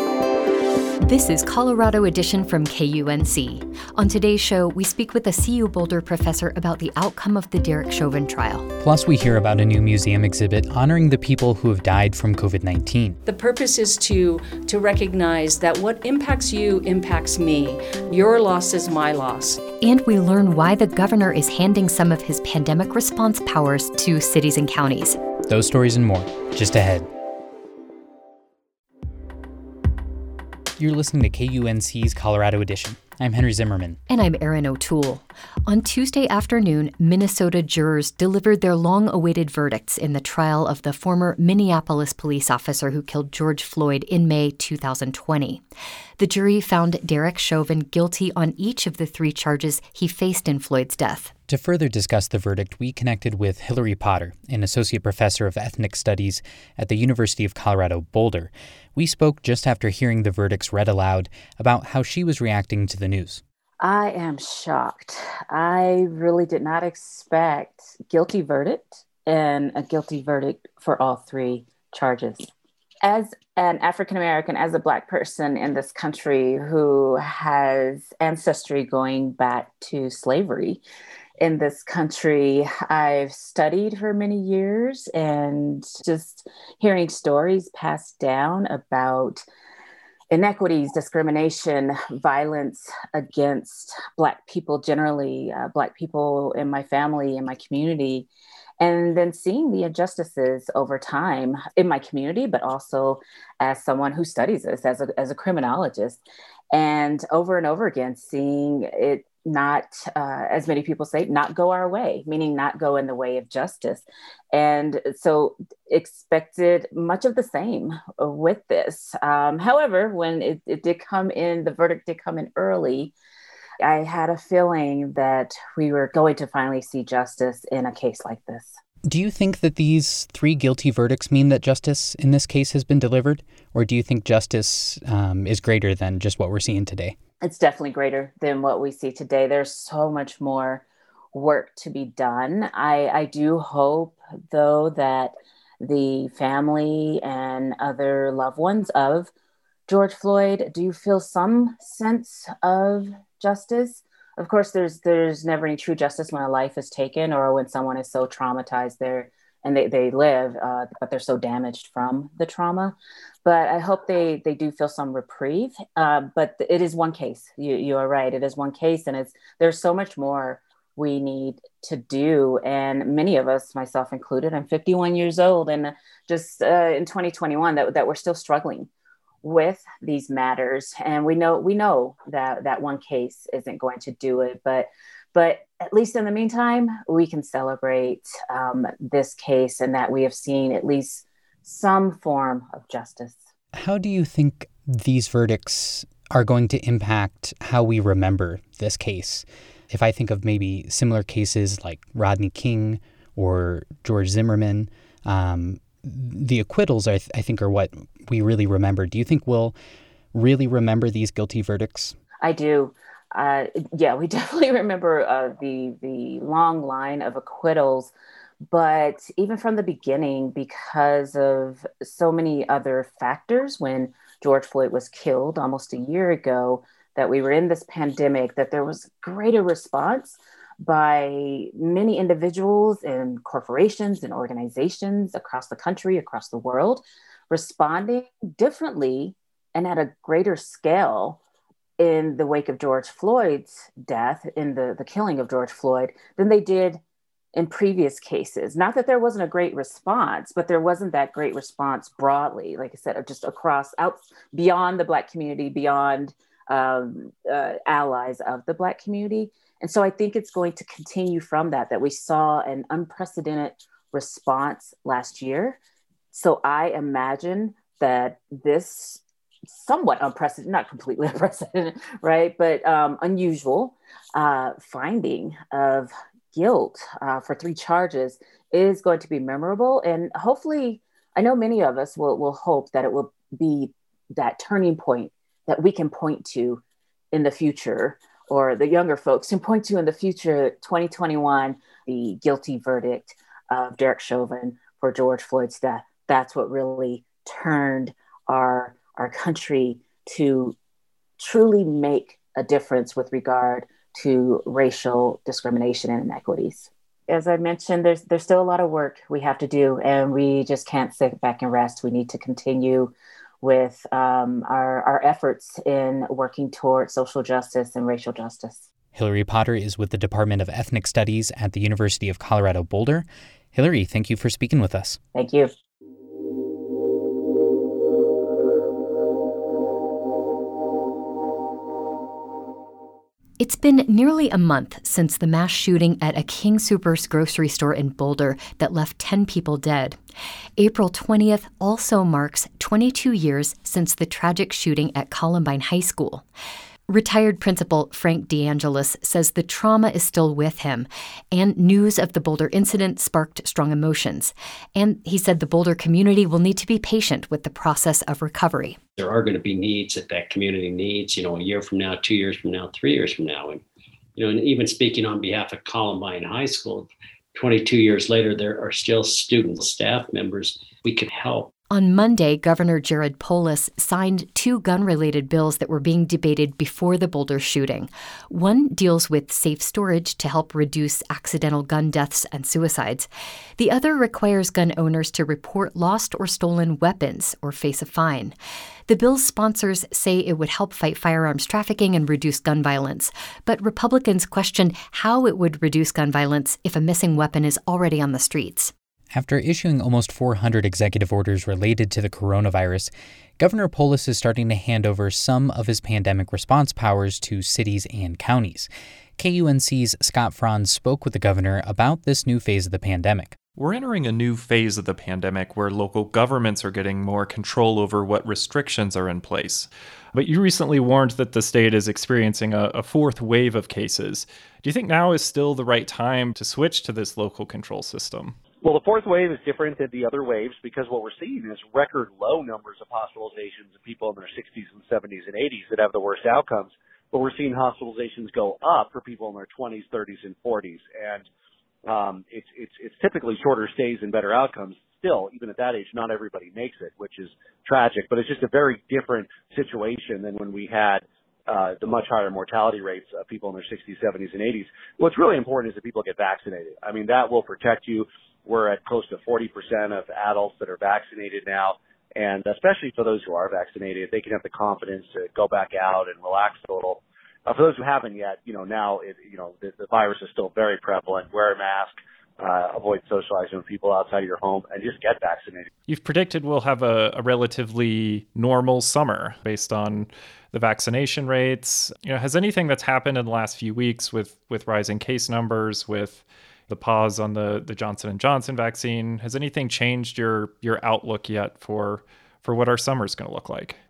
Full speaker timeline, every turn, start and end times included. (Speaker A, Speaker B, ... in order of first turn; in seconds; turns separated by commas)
Speaker A: 1.0-8.7, Speaker B: 8.8-13.2, Speaker C: 13.2-19.6, Speaker A: 19.8-25.2, Speaker B: 25.4-27.1, Speaker B: 30.8-34.0, Speaker A: 34.1-45.6, Speaker A: 46.2-51.3, Speaker B: 51.5-63.4, Speaker D: 63.8-72.5, Speaker D: 73.0-80.8, Speaker D: 81.4-89.4, Speaker D: 90.3-98.3, Speaker D: 98.8-106.2, Speaker D: 106.7-123.1, Speaker D: 123.8-128.7, Speaker B: 129.0-137.2, Speaker D: 137.4-149.3, Speaker D: 149.9-178.9, Speaker D: 179.4-193.4, Speaker B: 193.7-209.8, Speaker B: 210.3-212.2, Speaker D: 212.4-218.1, Speaker D: 218.7-241.4, Speaker D: 242.0-247.0, Speaker D: 247.5-265.8, Speaker D: 266.3-300.7, Speaker D: 301.4-318.8, Speaker B: 319.1-325.2, Speaker D: 325.3-325.7, Speaker A: 333.6-340.2, Speaker A: 340.8-346.4, Speaker A: 347.1-359.0, Speaker E: 359.2-363.8, Speaker E: 364.4-371.7, Speaker A: 371.9-388.5, Speaker A: 389.1-398.9, Speaker B: 399.3-413.6, Speaker F: 413.8-428.6, Speaker G: 428.8-441.4, Speaker G: 442.0-475.9, Speaker F: 476.1-494.0